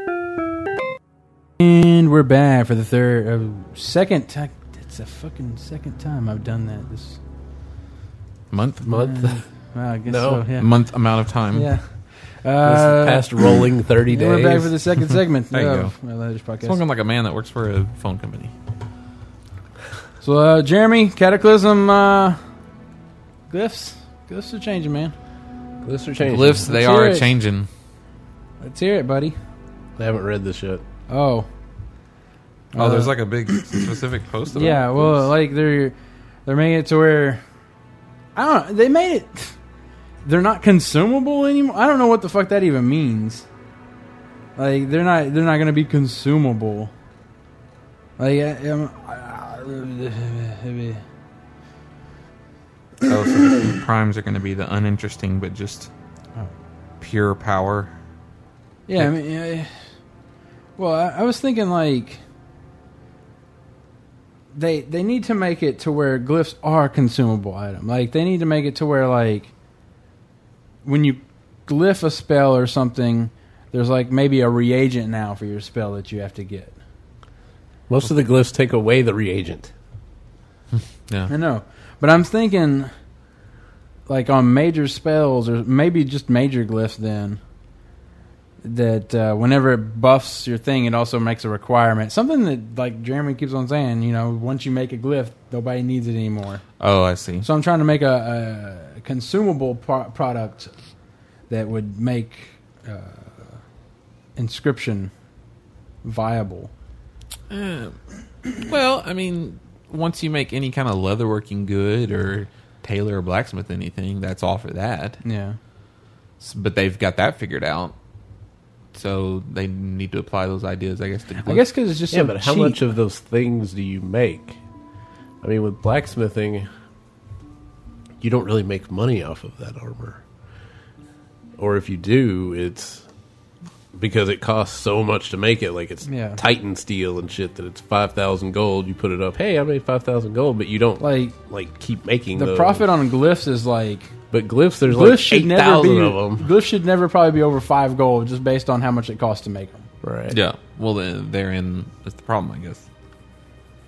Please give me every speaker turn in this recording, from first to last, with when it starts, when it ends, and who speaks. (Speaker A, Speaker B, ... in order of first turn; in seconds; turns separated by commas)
Speaker A: 1.6-7.2, Speaker B: 8.5-8.9, Speaker C: 8.8-9.4, Speaker A: 8.9-10.7, Speaker C: 10.1-10.5, Speaker B: 10.5-11.7, Speaker A: 11.5-11.9, Speaker A: 12.4-16.8, Speaker C: 12.6-14.7, Speaker B: 15.5-15.9, Speaker B: 16.6-18.5, Speaker A: 20.2-22.4, Speaker A: 23.5-25.1, Speaker C: 25.8-26.7, Speaker B: 26.2-27.7, Speaker A: 26.6-27.3, Speaker A: 28.6-29.4, Speaker C: 30.0-30.8, Speaker A: 31.1-31.5, Speaker A: 32.7-33.9, Speaker B: 32.8-35.3, Speaker A: 34.5-36.0, Speaker A: 36.5-37.4, Speaker A: 38.4-39.6, Speaker A: 40.2-43.5, Speaker A: 44.6-46.9, Speaker A: 48.2-51.0, Speaker B: 53.0-55.9, Speaker B: 57.0-57.9, Speaker A: 58.9-59.7, Speaker A: 60.8-62.2, Speaker A: 64.5-69.5, Speaker A: 70.8-76.8, Speaker C: 77.9-79.7, Speaker A: 81.3-82.9, Speaker A: 84.1-87.4, Speaker A: 88.6-96.6, Speaker B: 96.8-97.5, Speaker A: 97.4-100.7, Speaker A: 101.5-103.6, Speaker A: 104.4-105.1, Speaker A: 106.0-106.7, Speaker B: 107.5-108.0, Speaker B: 108.5-115.2, Speaker A: 115.2-115.6, Speaker B: 116.4-117.9, Speaker B: 118.9-121.7, Speaker A: 121.5-122.8, Speaker C: 122.1-124.6, Speaker C: 125.4-126.7, Speaker C: 128.2-130.2, Speaker C: 131.6-133.1, Speaker C: 133.9-142.9, Speaker A: 136.1-136.4, Speaker A: 141.0-141.3, Speaker A: 142.3-144.1, Speaker C: 144.3-146.5, Speaker A: 144.9-149.9, Speaker C: 150.0-150.4, Speaker B: 150.3-152.9